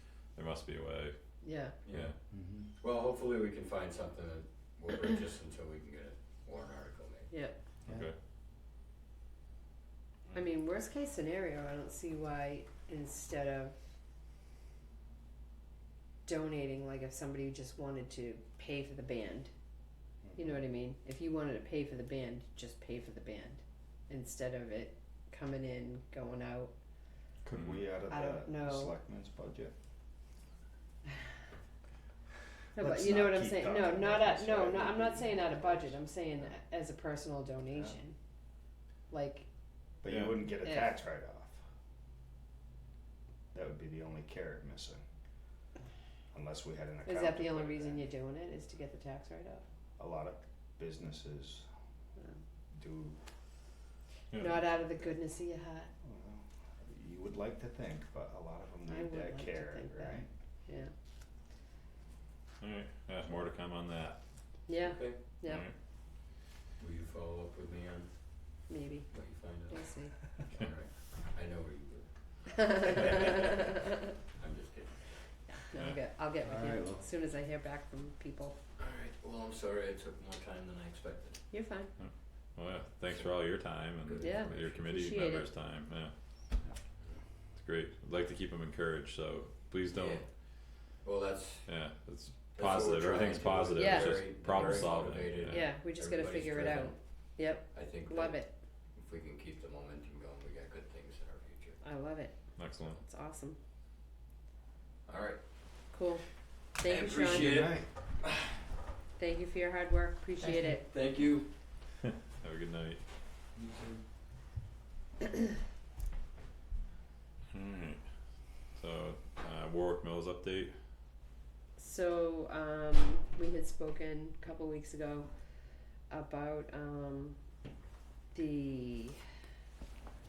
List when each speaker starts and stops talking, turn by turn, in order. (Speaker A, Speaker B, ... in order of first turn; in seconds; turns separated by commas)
Speaker A: 0.3-1.1, Speaker B: 1.4-1.8, Speaker C: 1.8-2.1, Speaker A: 1.9-2.1, Speaker D: 2.3-2.7, Speaker C: 2.8-7.3, Speaker B: 7.3-7.6, Speaker A: 7.9-8.1, Speaker B: 10.3-13.7, Speaker B: 16.2-19.5, Speaker D: 20.2-20.6, Speaker B: 20.4-26.7, Speaker A: 27.4-27.8, Speaker D: 27.5-29.7, Speaker B: 28.1-28.9, Speaker B: 32.8-38.1, Speaker D: 32.8-36.5, Speaker D: 37.7-38.0, Speaker B: 39.1-39.5, Speaker D: 40.0-41.6, Speaker A: 40.1-40.4, Speaker B: 40.6-40.9, Speaker D: 43.5-45.0, Speaker D: 46.3-48.1, Speaker B: 47.0-49.6, Speaker D: 50.0-51.7, Speaker D: 52.7-53.2, Speaker A: 54.3-54.7, Speaker B: 54.4-55.9, Speaker D: 56.0-60.3, Speaker B: 58.9-60.9, Speaker A: 62.6-64.2, Speaker B: 64.7-65.6, Speaker C: 64.8-65.2, Speaker A: 65.5-65.7, Speaker C: 66.8-68.1, Speaker B: 68.7-69.1, Speaker C: 69.1-69.8, Speaker B: 69.7-70.1, Speaker C: 70.4-73.8, Speaker B: 72.6-74.0, Speaker C: 74.4-75.0, Speaker B: 75.5-78.6, Speaker A: 75.7-76.0, Speaker D: 76.5-76.9, Speaker C: 76.6-77.0, Speaker C: 78.8-81.4, Speaker B: 81.5-81.9, Speaker A: 82.0-86.1, Speaker C: 83.1-84.8, Speaker B: 84.2-85.5, Speaker A: 87.6-90.2, Speaker C: 89.9-90.2, Speaker C: 91.0-91.7, Speaker A: 91.7-95.7, Speaker C: 92.5-97.0, Speaker B: 93.7-94.7, Speaker B: 95.5-98.5, Speaker C: 97.7-98.4, Speaker C: 98.9-101.8, Speaker B: 101.8-102.4, Speaker A: 102.5-103.0, Speaker B: 102.9-103.6, Speaker C: 105.1-105.4, Speaker B: 105.9-106.2, Speaker B: 106.8-107.6, Speaker C: 106.8-108.5, Speaker D: 107.3-107.8, Speaker B: 109.2-110.8, Speaker C: 110.4-111.5, Speaker A: 112.3-113.0, Speaker C: 113.5-114.0, Speaker A: 117.5-118.0, Speaker A: 118.7-120.7, Speaker B: 121.8-125.3, Speaker B: 126.1-127.4, Speaker B: 128.3-129.2